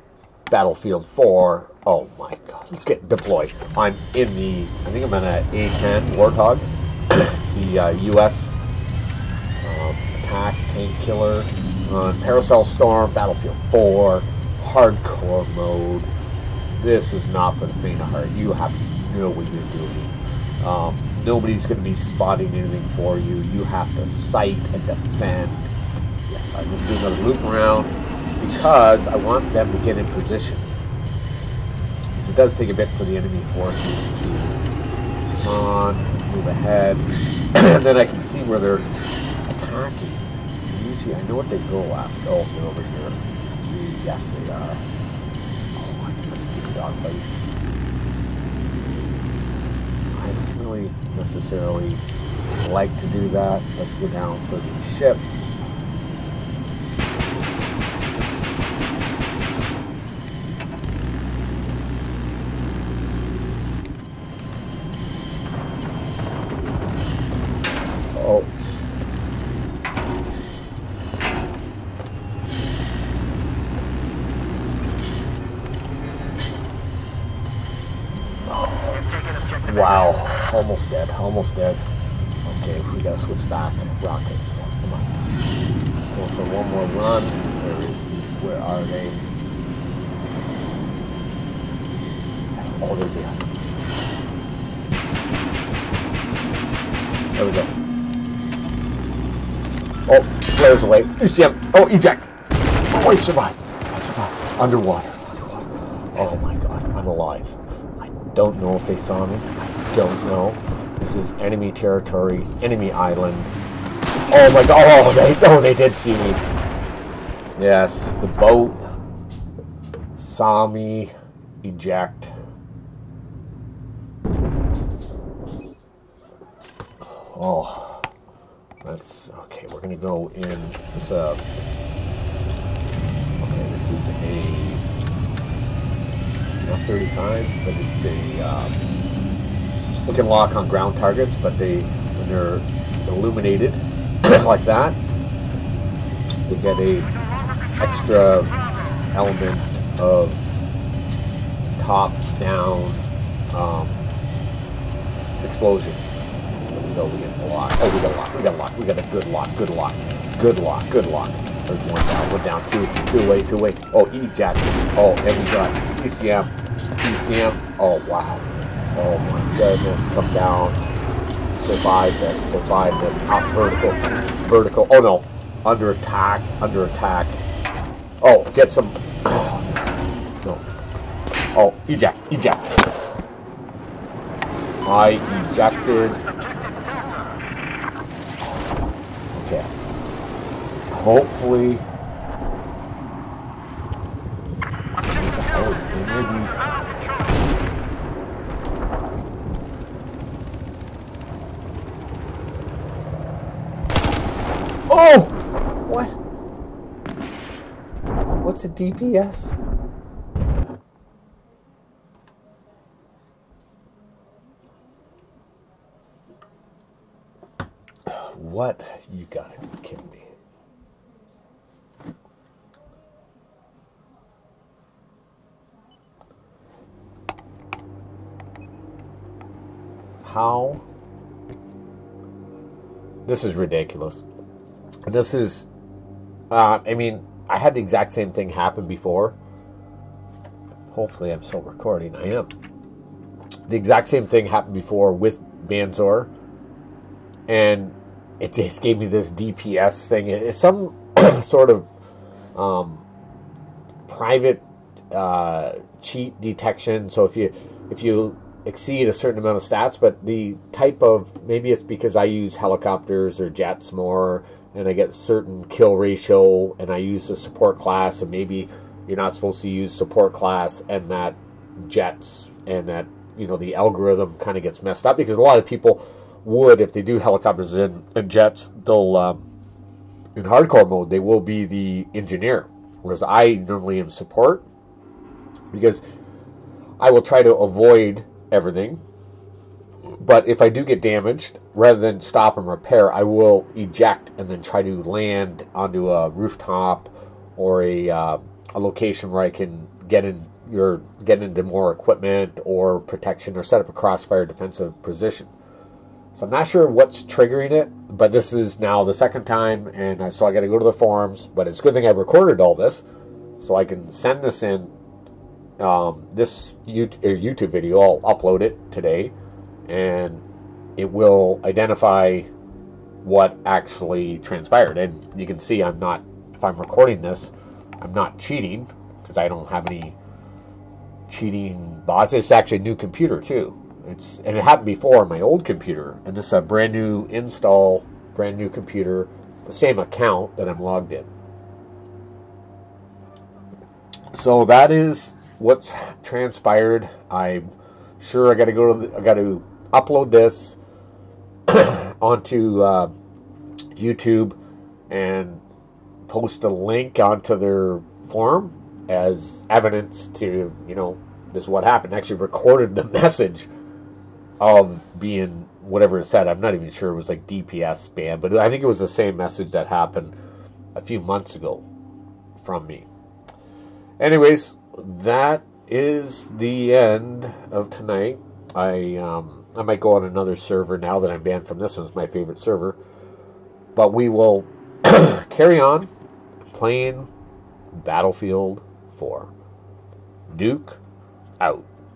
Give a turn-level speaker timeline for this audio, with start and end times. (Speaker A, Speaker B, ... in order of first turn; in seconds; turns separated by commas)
Speaker A: 0.5-8.5, Speaker A: 9.6-16.1, Speaker A: 16.7-25.7, Speaker A: 26.3-30.7, Speaker A: 32.1-34.6, Speaker A: 35.2-38.9, Speaker A: 39.5-44.8, Speaker A: 45.7-47.4, Speaker A: 50.1-52.0, Speaker A: 52.6-55.2, Speaker A: 68.1-68.5, Speaker A: 78.5-79.1, Speaker A: 79.6-81.8, Speaker A: 82.4-85.2, Speaker A: 86.0-89.2, Speaker A: 92.5-93.6, Speaker A: 97.3-97.7, Speaker A: 100.1-113.5, Speaker A: 114.3-116.4, Speaker A: 117.5-118.8, Speaker A: 120.2-122.3, Speaker A: 127.0-128.1, Speaker A: 128.8-131.4, Speaker A: 133.4-134.8, Speaker A: 136.6-138.8, Speaker A: 140.0-145.0, Speaker A: 146.4-147.1, Speaker A: 147.8-148.6, Speaker A: 149.1-150.4, Speaker A: 151.8-154.1, Speaker A: 155.4-156.1, Speaker A: 156.7-170.8, Speaker A: 171.5-177.4, Speaker A: 178.2-179.7, Speaker A: 181.5-182.8, Speaker A: 184.8-186.2, Speaker A: 189.3-189.7, Speaker A: 190.9-191.8, Speaker A: 195.1-197.0, Speaker A: 204.9-206.2, Speaker A: 208.4-209.6, Speaker A: 218.1-220.3, Speaker A: 230.2-230.8, Speaker A: 233.2-234.2, Speaker A: 235.1-235.7, Speaker A: 236.5-239.4, Speaker A: 240.9-242.5, Speaker A: 243.7-246.3, Speaker A: 247.5-251.9, Speaker A: 252.6-253.1, Speaker A: 254.1-279.5, Speaker A: 280.3-284.6, Speaker A: 285.7-286.0, Speaker A: 287.0-289.0, Speaker A: 290.2-305.5, Speaker A: 306.3-313.0, Speaker A: 313.6-314.9, Speaker A: 315.8-319.3, Speaker A: 319.9-320.4, Speaker A: 320.9-322.5, Speaker A: 323.2-330.2, Speaker A: 331.3-341.3, Speaker A: 344.3-350.8, Speaker A: 351.7-353.1, Speaker A: 353.9-354.6, Speaker A: 355.1-355.6, Speaker A: 356.2-363.7, Speaker A: 364.6-370.3, Speaker A: 370.9-371.9, Speaker A: 372.6-373.1, Speaker A: 374.2-383.0, Speaker A: 383.9-386.1, Speaker A: 386.7-387.3, Speaker A: 387.9-389.5, Speaker A: 390.5-391.0, Speaker A: 391.6-391.9